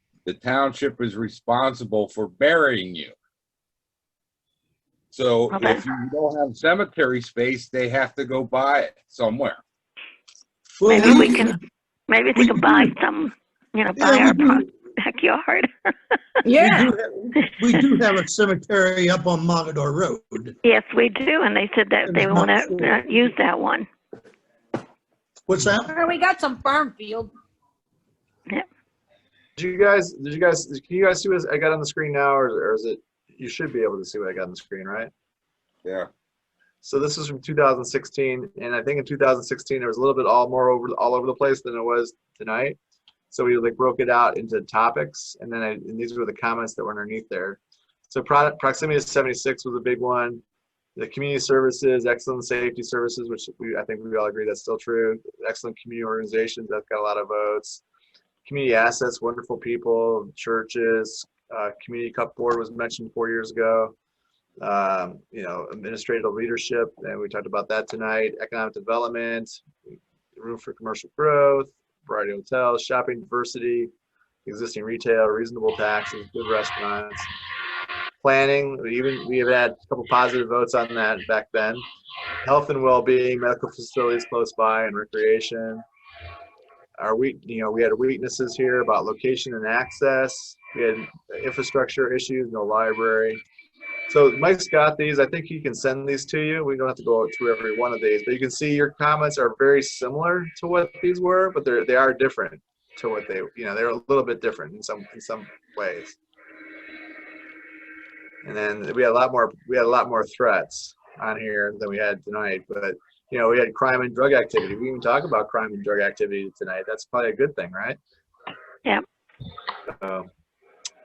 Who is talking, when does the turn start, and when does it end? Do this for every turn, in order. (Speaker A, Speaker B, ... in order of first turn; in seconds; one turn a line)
Speaker A: 0.3-3.1
Speaker A: 5.1-9.6
Speaker B: 5.5-5.8
Speaker B: 10.9-16.2
Speaker C: 11.1-11.6
Speaker C: 12.5-12.9
Speaker C: 14.3-14.6
Speaker D: 16.4-17.0
Speaker C: 16.6-20.5
Speaker B: 20.6-23.9
Speaker C: 22.1-22.9
Speaker C: 25.5-25.9
Speaker D: 25.9-27.3
Speaker E: 29.6-35.1
Speaker E: 36.8-42.8
Speaker E: 43.3-50.4
Speaker E: 51.0-57.8
Speaker E: 58.5-64.0
Speaker E: 64.6-69.6
Speaker E: 70.4-73.9
Speaker E: 74.5-77.3
Speaker E: 78.2-81.8
Speaker E: 82.4-85.8
Speaker E: 87.0-93.4
Speaker E: 94.1-106.2
Speaker E: 108.4-118.0
Speaker E: 119.9-120.3